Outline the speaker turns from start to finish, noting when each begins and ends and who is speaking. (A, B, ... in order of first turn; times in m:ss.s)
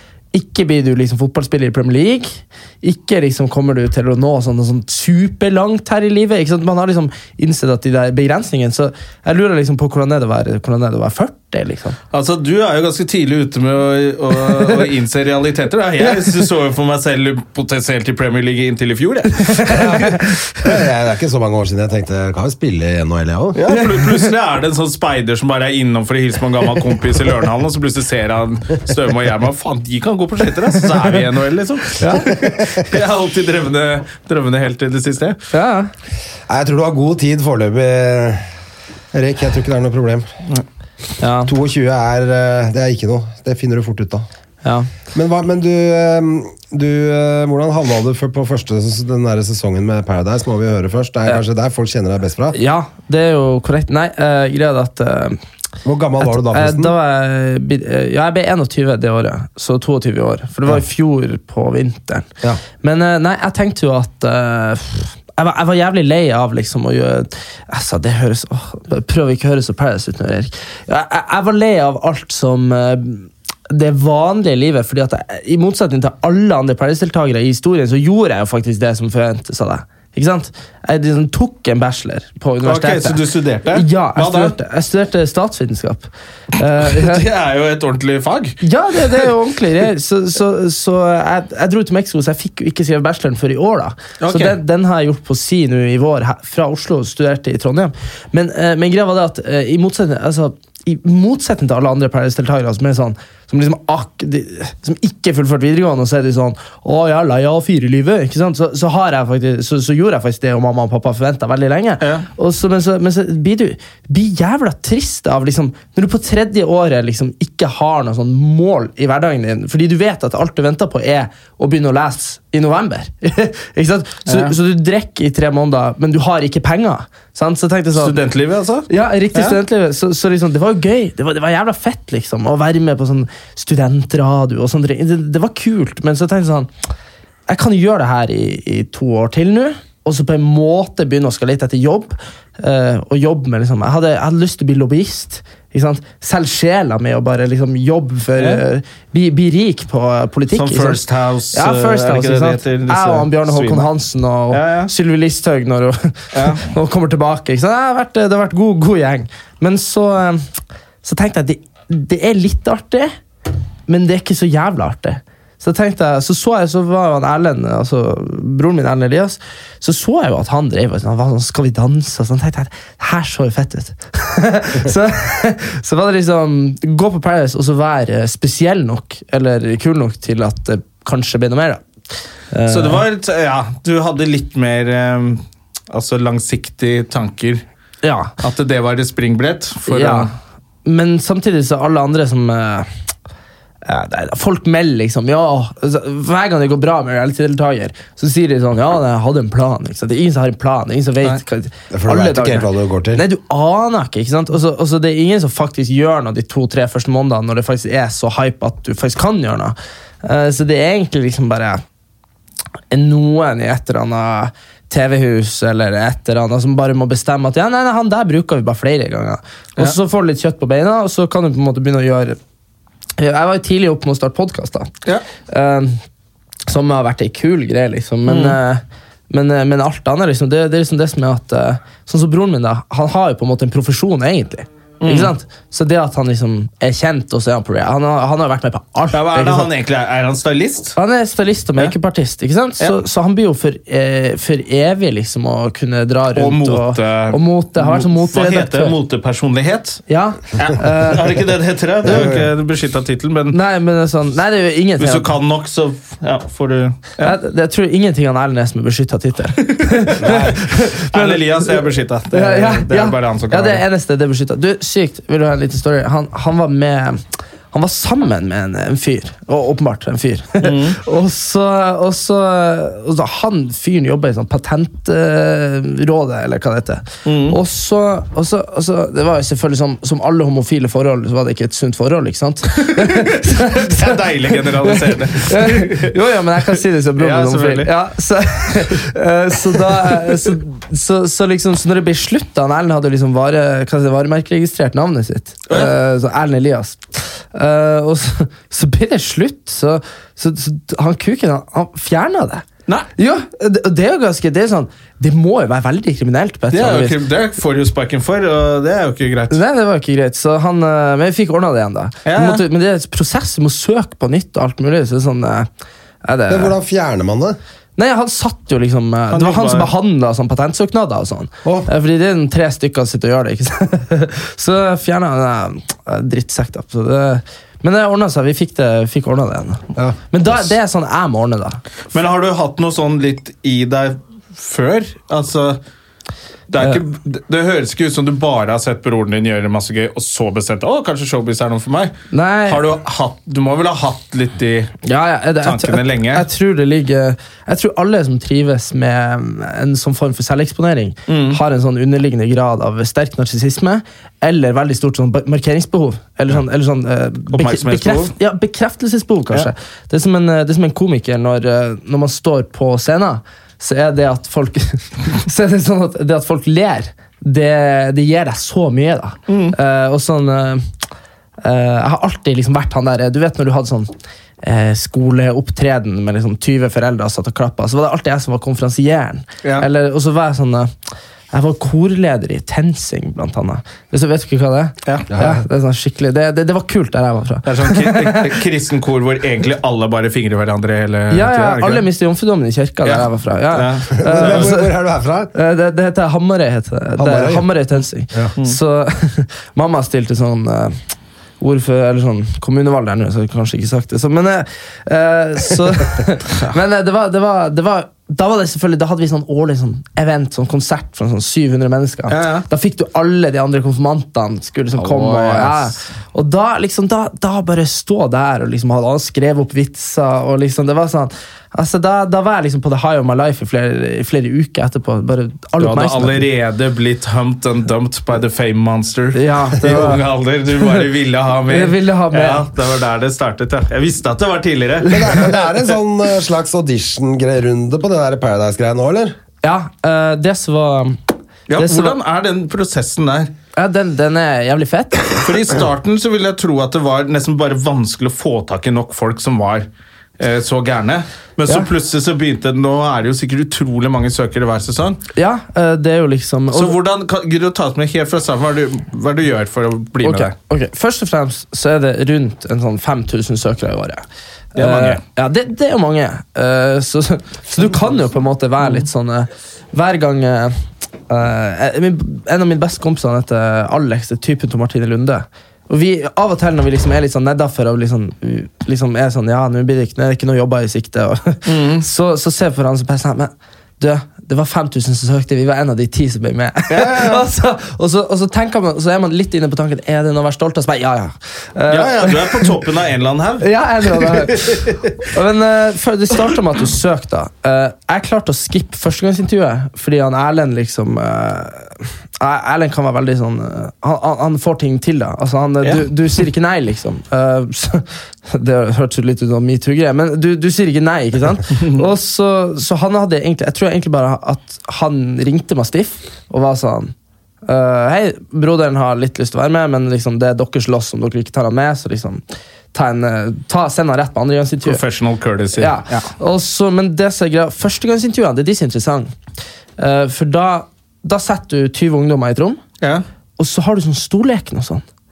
0:00.3-0:12.0 A
0:12.1-0:20.0 B
0:16.0-0:16.4 A
0:19.6-0:20.1 A
0:19.7-0:23.7 C
0:23.5-0:35.4 B
0:23.7-0:24.1 A
0:32.0-0:32.3 A
0:32.1-0:32.9 C
0:35.5-0:35.9 A
0:36.5-0:38.5 C
0:39.1-0:40.3 C
0:41.2-0:41.5 A
0:41.4-0:44.3 C
0:44.6-0:44.9 A
0:45.1-0:52.6 C
0:52.5-0:55.4 A
0:55.8-0:56.9 C
0:56.2-1:02.3 A
1:02.8-1:27.2 A
1:22.6-1:24.5 B
1:26.8-1:29.3 B
1:28.6-2:08.2 A
1:34.2-1:34.6 B
1:52.0-1:52.3 B
2:04.3-2:04.5 B
2:07.9-2:09.6 B
2:08.9-2:16.7 A
2:17.5-2:31.0 A
2:28.4-2:28.6 B
2:30.5-2:33.9 B
2:31.5-2:40.4 A
2:34.5-2:34.9 B
2:36.3-2:36.6 B
2:41.0-2:43.1 A
2:43.9-3:01.8 A
3:02.5-3:03.0 A
3:02.7-3:07.6 B
3:08.0-3:08.3 A
3:08.4-3:10.3 B
3:09.9-3:10.3 A
3:10.8-3:12.9 A
3:13.8-3:31.8 A
3:21.9-3:23.2 C
3:32.9-3:42.4 A
3:43.2-3:44.9 A
3:45.5-3:46.0 A
3:46.7-3:59.7 A
3:48.2-3:48.6 B
3:55.0-3:55.3 B
3:59.1-4:01.0 B
4:01.0-4:08.9 A
4:06.3-4:10.0 B
4:10.1-4:11.3 A
4:10.5-4:13.6 B
4:12.1-4:12.4 C
4:12.1-4:12.3 A
4:13.5-4:15.3 A
4:15.0-4:17.3 B
4:17.2-5:02.6 A
4:19.7-4:23.8 B
4:20.2-4:20.6 C
4:30.6-4:31.0 B
4:37.2-4:37.6 B
4:42.7-4:46.2 B
4:47.2-4:47.9 B
4:50.0-4:50.5 B
5:03.2-5:07.2 A
5:06.7-5:09.6 B
5:09.5-5:15.7 A
5:12.2-5:12.6 B
5:16.2-5:16.7 A
5:16.5-5:17.6 C
5:18.0-5:31.8 A
5:19.3-5:19.9 B
5:32.1-5:35.8 B
5:36.7-5:42.2 B
5:42.3-5:42.8 A
5:42.7-5:45.0 B
5:45.0-6:10.8 A
5:45.6-5:46.4 B
5:51.3-5:51.6 B
5:57.5-5:58.3 B
6:09.5-6:09.8 B
6:11.6-6:14.1 A
6:14.6-6:20.9 A
6:21.5-6:28.5 A
6:25.3-6:25.6 C
6:27.6-6:32.0 B
6:31.3-6:34.9 A
6:33.0-6:34.7 B
6:34.1-6:35.5 C
6:35.5-6:41.0 A
6:37.2-6:37.6 C
6:41.6-7:06.4 A
6:52.3-6:52.6 B
6:54.9-6:55.9 B
7:05.8-7:15.3 B
7:09.3-7:10.2 A
7:11.7-7:12.7 A
7:15.0-7:19.3 C
7:19.6-7:21.2 A
7:21.7-7:23.5 B
7:21.7-7:22.2 A
7:23.7-7:25.5 A
7:25.4-7:29.9 B
7:30.4-7:35.2 B
7:35.3-7:37.0 A
7:36.7-7:40.5 B
7:40.2-7:44.2 A
7:44.7-7:50.7 A
7:44.8-7:45.2 B
7:51.3-8:12.8 A
8:01.6-8:02.0 B
8:06.9-8:07.4 B
8:11.9-8:15.1 B
8:13.6-8:37.1 A
8:37.6-8:45.0 A
8:44.8-8:46.3 B
8:45.8-8:49.3 A
8:50.0-8:52.8 A
8:53.6-8:55.0 A